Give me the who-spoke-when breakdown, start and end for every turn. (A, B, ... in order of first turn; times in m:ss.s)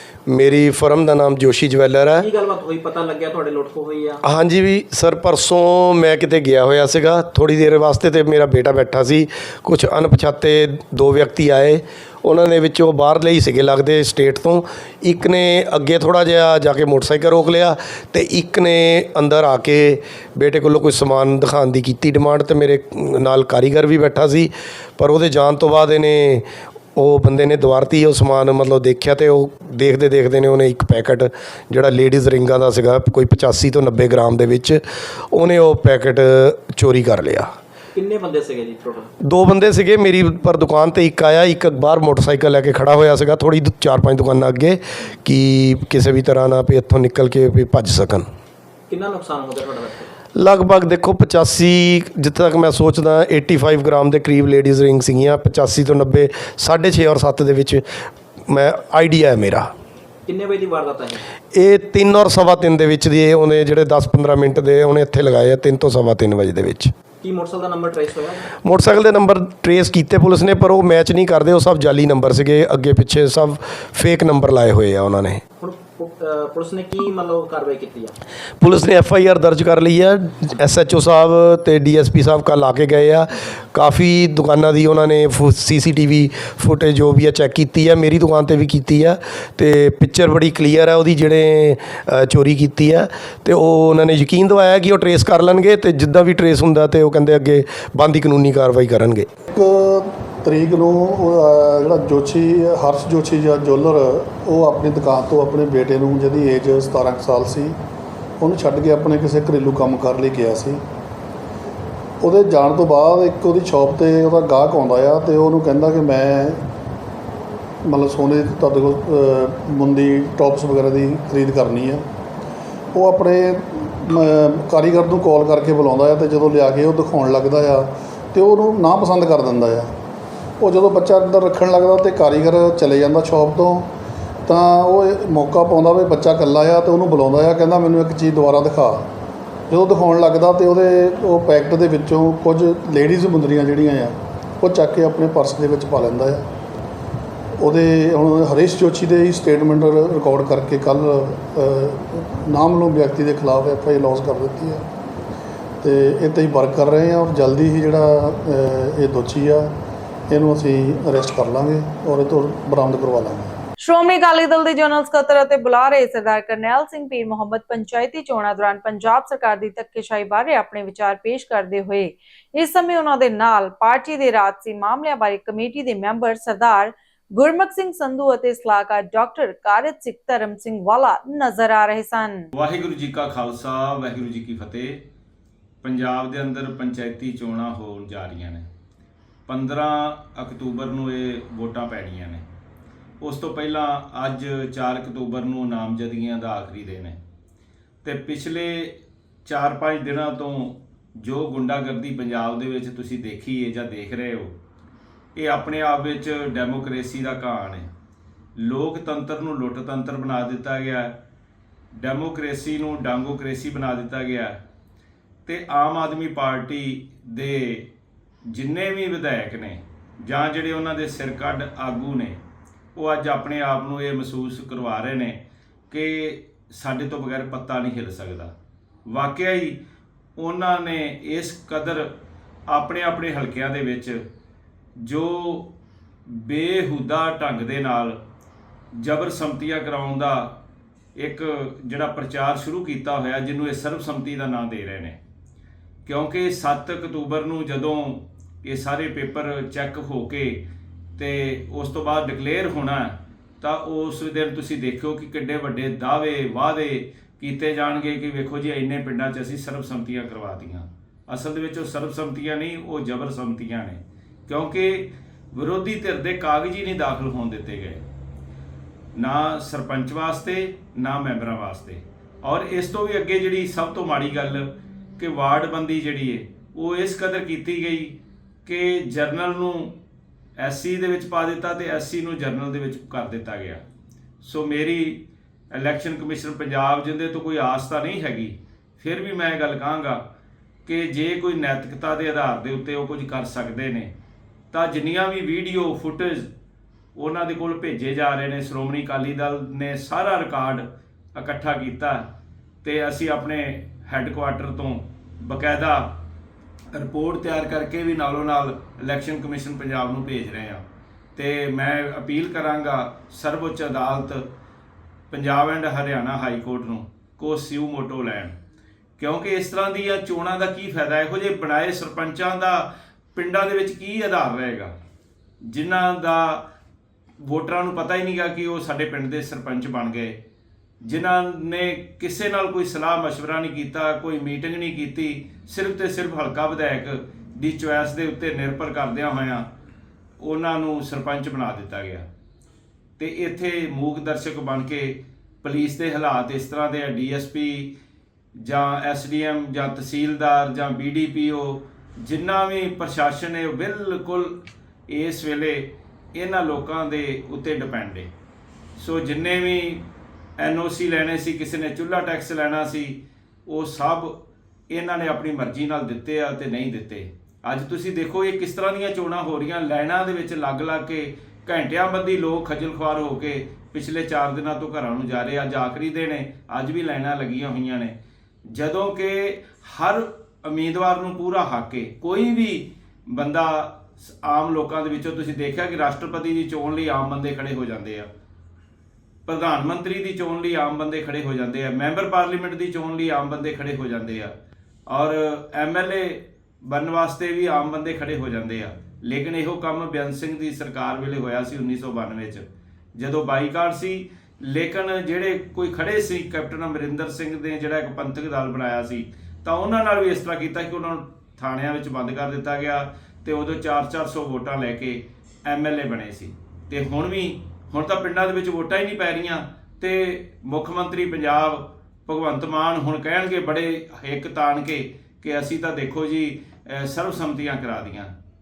0:00.3-0:02.3 A
0:02.2-0:04.2 B
0:04.2-0:37.5 A
0:38.0-0:39.1 B
0:39.2-0:48.3 A
0:48.9-0:50.0 B
0:50.4-0:57.8 A
0:58.5-0:59.7 A
1:00.3-1:01.2 B
1:01.6-1:06.9 A
1:07.2-1:08.4 B
1:08.6-1:15.4 A
1:15.6-1:18.1 B
1:18.6-1:39.3 A
1:39.5-1:47.8 C
1:48.4-1:50.8 C
1:52.2-1:56.6 C
1:57.8-2:02.0 C
2:02.9-2:09.9 C
2:10.6-2:13.9 C
2:14.5-2:19.0 C
2:19.7-2:26.5 C
2:27.6-2:34.9 C
2:35.8-2:39.7 C
2:40.3-2:43.6 C
2:43.8-3:02.4 D
3:02.5-3:05.0 E
3:05.8-3:08.7 E
3:09.5-3:12.4 E
3:13.2-3:17.2 E
3:18.0-3:24.5 E
3:25.4-3:27.9 E
3:28.6-3:31.1 E
3:32.0-3:34.5 E
3:35.5-3:37.9 E
3:38.5-3:42.4 E
3:42.9-3:48.5 E
3:49.1-3:49.8 E
3:50.4-3:52.1 E
3:52.7-3:54.2 E
3:55.0-3:55.7 E
3:56.3-3:58.2 E
3:59.0-4:00.6 E
4:01.2-4:05.2 E
4:06.0-4:10.6 E
4:11.2-4:28.0 E
4:29.2-4:40.0 E
4:40.6-4:43.8 E
4:44.4-4:50.2 E
4:50.8-4:54.1 E
4:54.7-4:56.5 E
4:57.2-5:00.8 E
5:01.4-5:02.3 E
5:02.8-5:06.2 E
5:06.9-5:10.8 E
5:11.4-5:14.4 E
5:15.3-5:18.6 E
5:19.2-5:24.9 E
5:25.7-5:26.6 E
5:27.4-5:30.4 E
5:31.1-5:39.7 E
5:40.4-5:42.3 E
5:43.2-5:47.9 E
5:48.6-5:54.5 E
5:55.1-5:58.3 E
5:59.0-6:00.1 E
6:00.6-6:04.3 E
6:04.9-6:18.1 E
6:18.7-6:28.3 E
6:29.5-6:34.5 E
6:35.1-7:08.3 E